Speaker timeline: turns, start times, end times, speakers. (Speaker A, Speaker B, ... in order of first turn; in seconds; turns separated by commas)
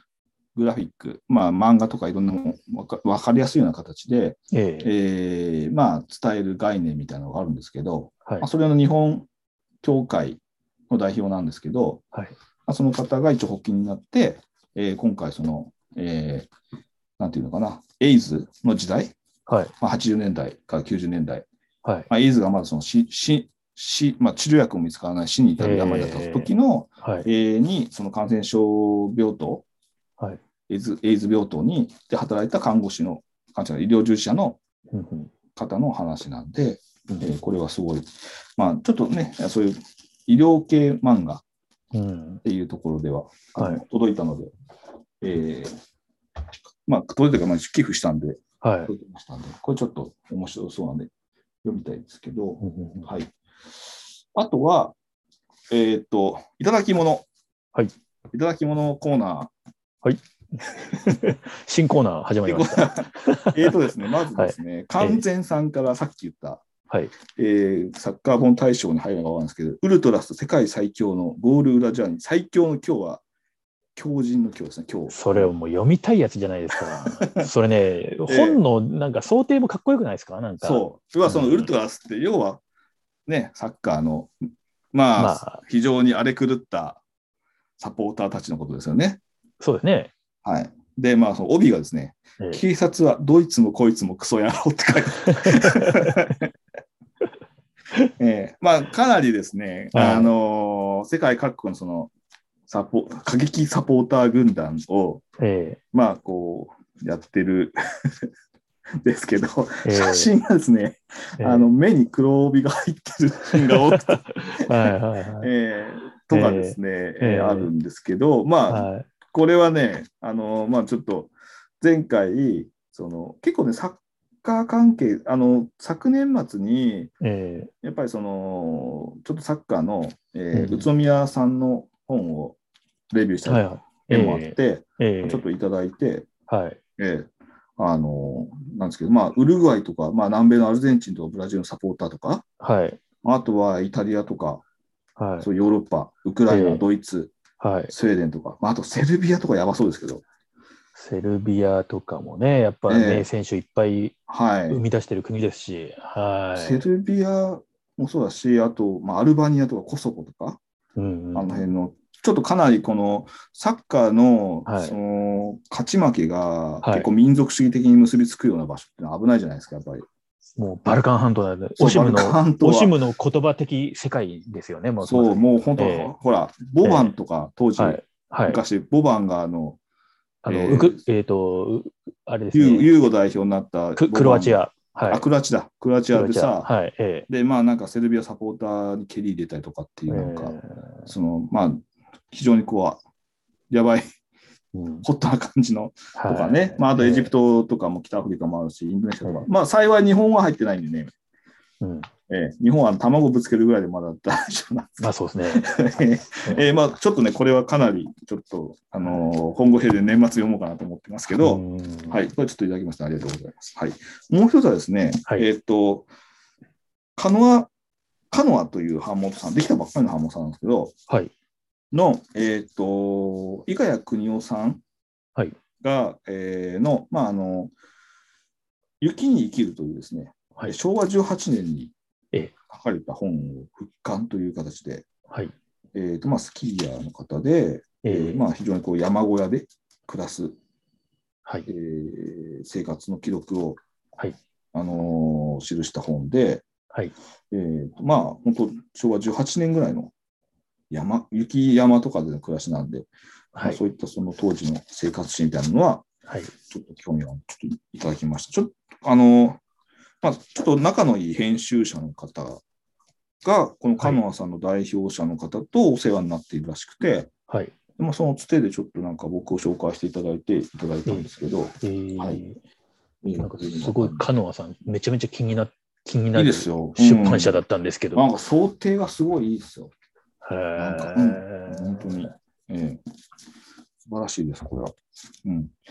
Speaker A: 0.5-9.3, Speaker B: 4.5-4.9, Speaker A: 9.8-12.0, Speaker A: 12.7-16.5, Speaker A: 17.2-19.1, Speaker B: 19.5-19.7, Speaker A: 19.8-21.5, Speaker B: 21.8-22.1, Speaker A: 22.1-29.6, Speaker B: 25.6-26.5, Speaker A: 30.7-34.6, Speaker B: 34.9-35.3, Speaker A: 35.5-41.4, Speaker B: 41.9-42.4, Speaker A: 42.4-44.5, Speaker B: 43.6-43.8, Speaker A: 45.2-45.8, Speaker A: 46.8-51.1, Speaker B: 48.6-48.9, Speaker A: 51.6-53.3, Speaker B: 52.6-53.1, Speaker A: 54.3-54.9, Speaker A: 55.7-57.2, Speaker A: 58.3-59.5, Speaker B: 60.0-63.8, Speaker A: 62.5-66.6, Speaker B: 64.3-65.2, Speaker A: 67.3-73.2, Speaker A: 74.0-75.5, Speaker B: 75.1-81.7, Speaker A: 76.8-77.5, Speaker A: 78.3-78.6, Speaker A: 80.6-82.6, Speaker A: 83.3-84.3, Speaker A: 84.9-87.0, Speaker B: 85.2-85.6, Speaker A: 87.8-89.2, Speaker B: 89.6-90.1, Speaker A: 90.4-96.5, Speaker B: 95.3-96.1, Speaker A: 98.2-102.1, Speaker B: 99.9-100.3, Speaker A: 102.7-105.2, Speaker B: 105.4-105.8, Speaker A: 105.9-107.8, Speaker A: 109.0-127.1, Speaker B: 109.8-110.3, Speaker B: 111.4-111.7, Speaker B: 113.6-115.5, Speaker B: 116.3-117.7, Speaker B: 118.7-119.1, Speaker B: 127.2-127.7, Speaker A: 127.8-132.6, Speaker B: 130.5-130.9, Speaker A: 133.1-136.3, Speaker B: 133.4-135.4, Speaker B: 136.5-136.8, Speaker A: 137.0-142.4, Speaker B: 142.6-143.0, Speaker A: 143.2-144.6, Speaker B: 145.2-145.5, Speaker A: 145.4-147.3, Speaker B: 146.5-146.8, Speaker B: 147.6-147.9, Speaker A: 147.9-150.2, Speaker B: 150.9-154.2, Speaker A: 152.9-153.2, Speaker A: 154.3-154.8, Speaker B: 154.7-156.9, Speaker A: 156.6-160.6, Speaker B: 160.9-161.7, Speaker A: 161.3-170.1, Speaker B: 164.7-164.9, Speaker B: 166.8-167.1, Speaker B: 170.6-176.1, Speaker A: 171.8-172.9, Speaker A: 175.0-179.8, Speaker B: 176.8-177.1, Speaker B: 177.8-178.6, Speaker B: 180.4-182.9, Speaker A: 180.5-181.0, Speaker A: 182.5-186.7, Speaker B: 184.0-185.2, Speaker B: 186.1-187.3, Speaker A: 187.3-190.6, Speaker B: 190.1-191.1, Speaker A: 191.1-193.0, Speaker A: 193.7-194.0, Speaker B: 194.7-195.1, Speaker A: 195.0-201.1, Speaker B: 196.1-197.3, Speaker B: 201.8-202.1, Speaker A: 202.3-205.0, Speaker B: 205.0-205.7, Speaker A: 205.5-216.1, Speaker B: 211.3-212.2, Speaker A: 217.2-217.7, Speaker A: 218.3-220.9, Speaker A: 221.9-224.8, Speaker A: 225.8-227.7, Speaker A: 229.0-231.9, Speaker A: 232.7-235.1, Speaker A: 235.9-240.6, Speaker B: 238.0-238.4, Speaker A: 241.7-243.8, Speaker A: 244.7-246.6, Speaker A: 247.5-250.1, Speaker A: 250.9-253.1, Speaker B: 253.5-253.8, Speaker A: 253.6-256.1, Speaker B: 256.3-256.5, Speaker A: 256.7-259.6, Speaker A: 260.2-262.6, Speaker A: 263.4-267.3, Speaker B: 267.5-267.7, Speaker A: 268.0-272.4, Speaker B: 271.8-272.6, Speaker A: 273.2-274.2, Speaker B: 273.4-278.2, Speaker A: 276.3-277.6, Speaker A: 278.1-279.9, Speaker B: 280.4-282.3, Speaker A: 280.8-283.0, Speaker A: 284.0-285.7